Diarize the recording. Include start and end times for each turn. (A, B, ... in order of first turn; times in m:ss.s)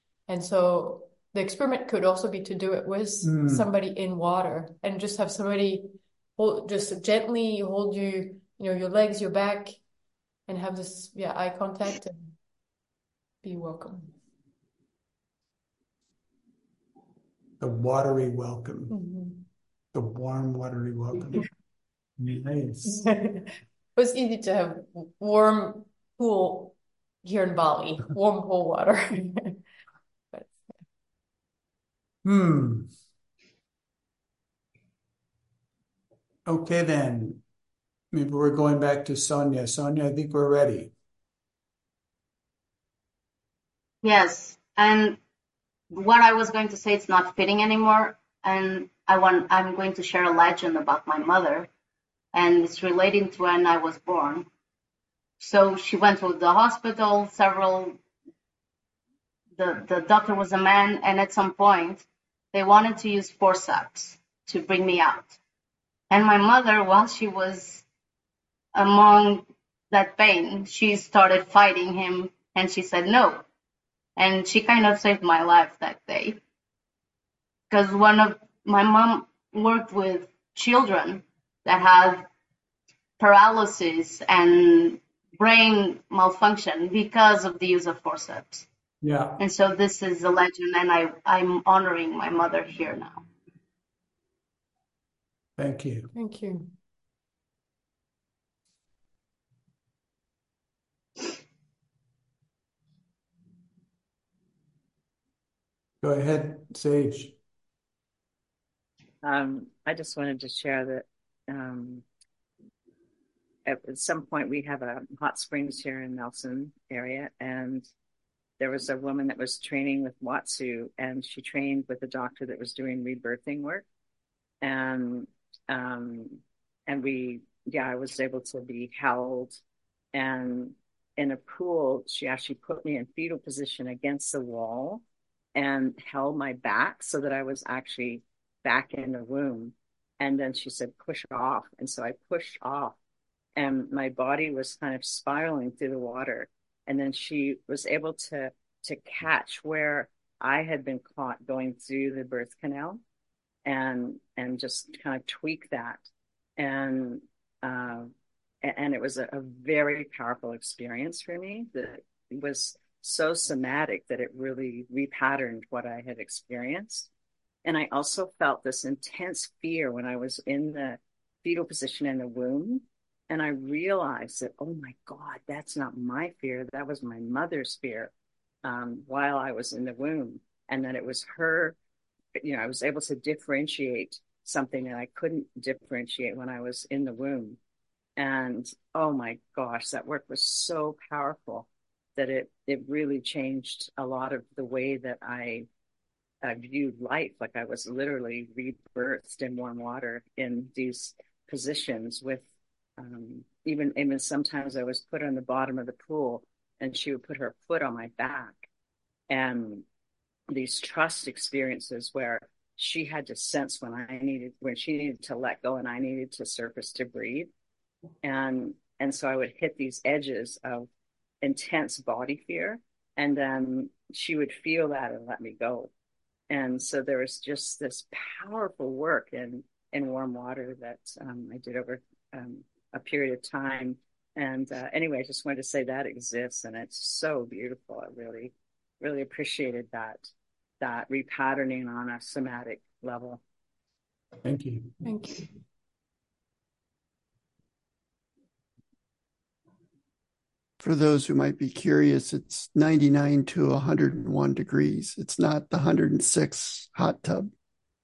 0:00.3-0:09.8 A
0:03.2-0:03.6 B
0:10.5-0:12.3 A
0:13.4-0:14.1 A
0:17.6-0:19.0 B
0:18.9-0:19.4 A
0:19.9-0:21.5 B
0:22.2-0:23.1 B
0:22.8-0:29.6 A
0:30.3-0:30.7 A
0:32.2-0:32.9 B
0:36.4-0:37.4 B
0:38.1-0:40.9 B
0:44.0-0:45.2 C
0:45.9-0:51.7 C
0:52.3-0:54.5 C
0:55.4-0:58.0 C
0:59.6-1:05.4 C
1:06.1-1:07.8 C
1:08.7-1:13.4 C
1:14.2-1:16.4 C
1:17.7-1:22.3 C
1:23.2-1:28.6 C
1:29.0-1:29.4 B
1:29.4-1:33.2 C
1:35.6-1:36.1 B
1:36.1-1:36.7 A
1:46.0-1:47.3 B
1:49.2-1:52.0 D
1:53.6-1:57.9 D
1:58.6-2:03.8 D
2:04.6-2:09.6 D
2:10.1-2:15.0 D
2:15.6-2:23.0 D
2:23.6-2:33.0 D
2:33.6-2:36.0 D
2:36.6-2:38.1 D
2:38.6-2:47.1 D
2:47.6-2:58.1 D
2:58.6-3:01.8 D
3:02.4-3:07.6 D
3:08.2-3:15.6 D
3:16.4-3:22.4 D
3:23.0-3:28.6 D
3:29.3-3:29.8 D
3:30.5-3:37.5 D
3:38.2-3:40.9 D
3:41.4-3:45.9 D
3:46.5-4:00.3 D
4:00.8-4:03.4 D
4:04.4-4:05.0 B
4:05.0-4:05.5 A
4:10.8-4:17.5 E